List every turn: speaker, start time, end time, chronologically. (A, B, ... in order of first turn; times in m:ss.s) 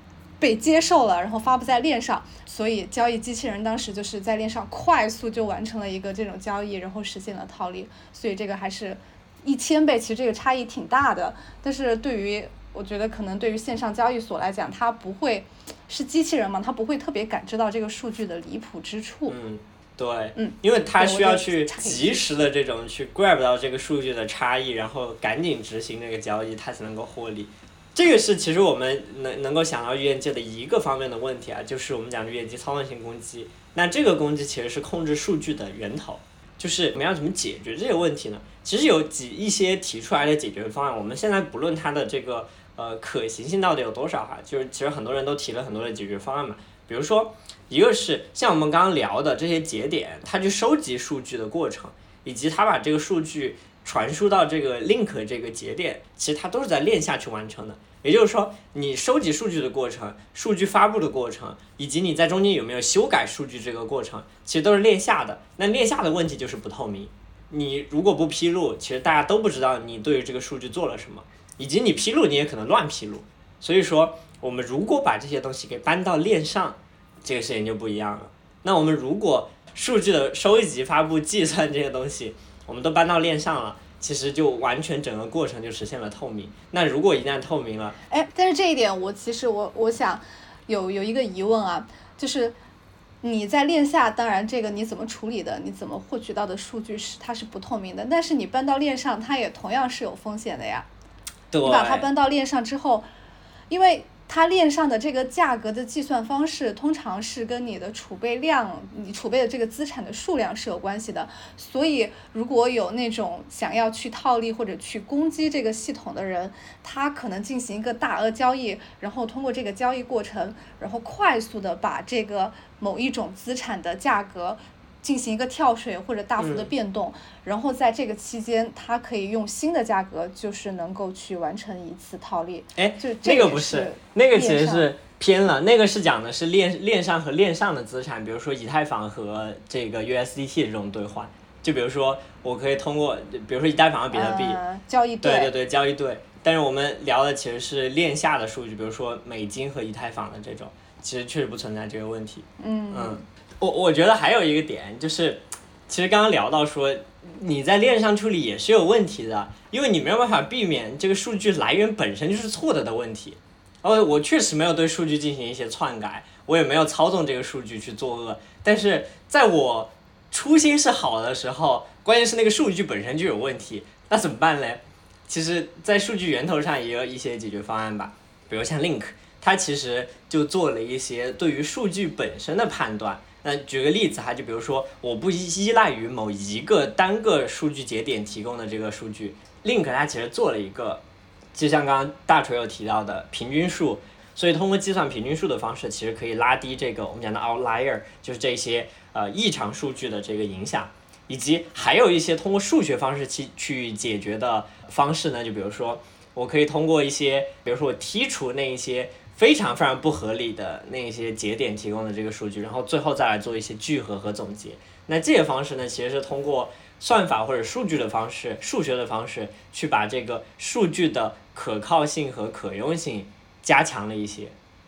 0:00.4-0:19.4 A
0:19.3-1:28.0 B
0:20.4-0:22.3 A
1:28.1-1:32.6 A
1:33.2-1:40.9 A
1:41.5-1:42.0 B
1:41.6-1:43.1 A
1:43.7-2:14.9 A
2:06.4-2:06.7 B
2:12.8-2:24.6 B
2:24.1-2:25.5 A
2:25.2-3:11.0 B
2:32.6-2:33.2 A
3:11.5-3:44.5 B